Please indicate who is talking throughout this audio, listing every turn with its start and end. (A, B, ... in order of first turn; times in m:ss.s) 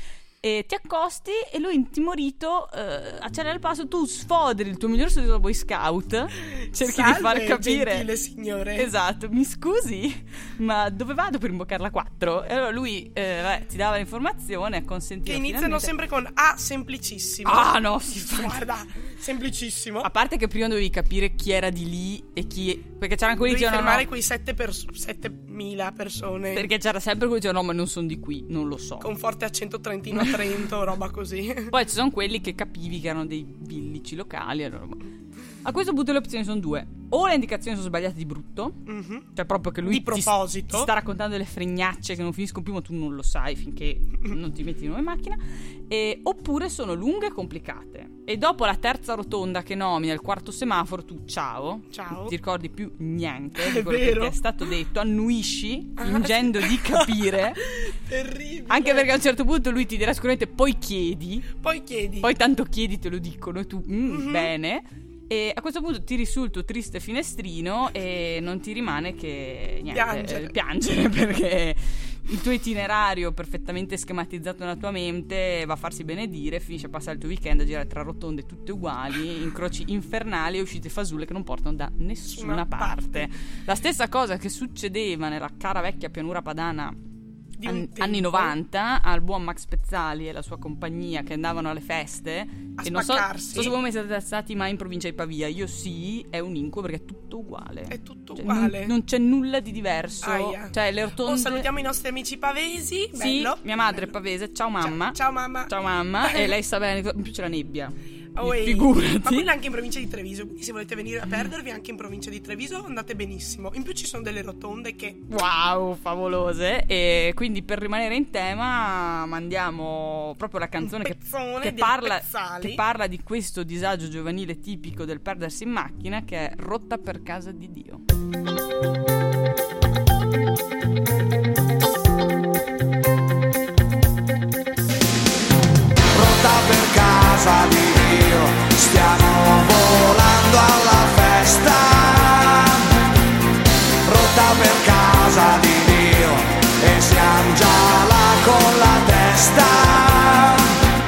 0:00.4-0:08.1 A
0:06.8-0:08.9 B
0:08.8-0:15.9 A
0:15.3-0:20.1 B
0:17.4-0:18.6 A
0:20.0-0:24.1 A
0:23.4-0:26.7 B
0:26.5-0:29.1 A
0:29.0-0:31.8 B
0:30.2-0:30.5 A
0:31.7-0:35.1 A
0:35.6-0:38.8 A
0:38.9-0:39.3 B
0:39.4-0:57.8 A
0:39.8-0:40.9 B
0:51.9-0:52.3 B
0:53.6-0:54.4 B
0:56.0-0:59.1 B
0:58.7-1:01.6 A
1:01.6-1:02.3 B
1:02.2-1:27.0 A
1:04.1-1:04.5 B
1:09.9-1:10.5 B
1:22.3-1:23.3 B
1:27.6-1:28.6 B
1:27.6-1:41.7 A
1:32.8-1:33.8 B
1:37.9-1:39.0 B
1:40.2-1:44.0 B
1:43.2-1:49.5 A
1:44.8-1:46.5 B
1:48.3-1:55.2 B
1:55.3-2:08.0 A
2:00.8-2:02.8 B
2:16.1-2:22.9 C
2:24.0-2:30.8 C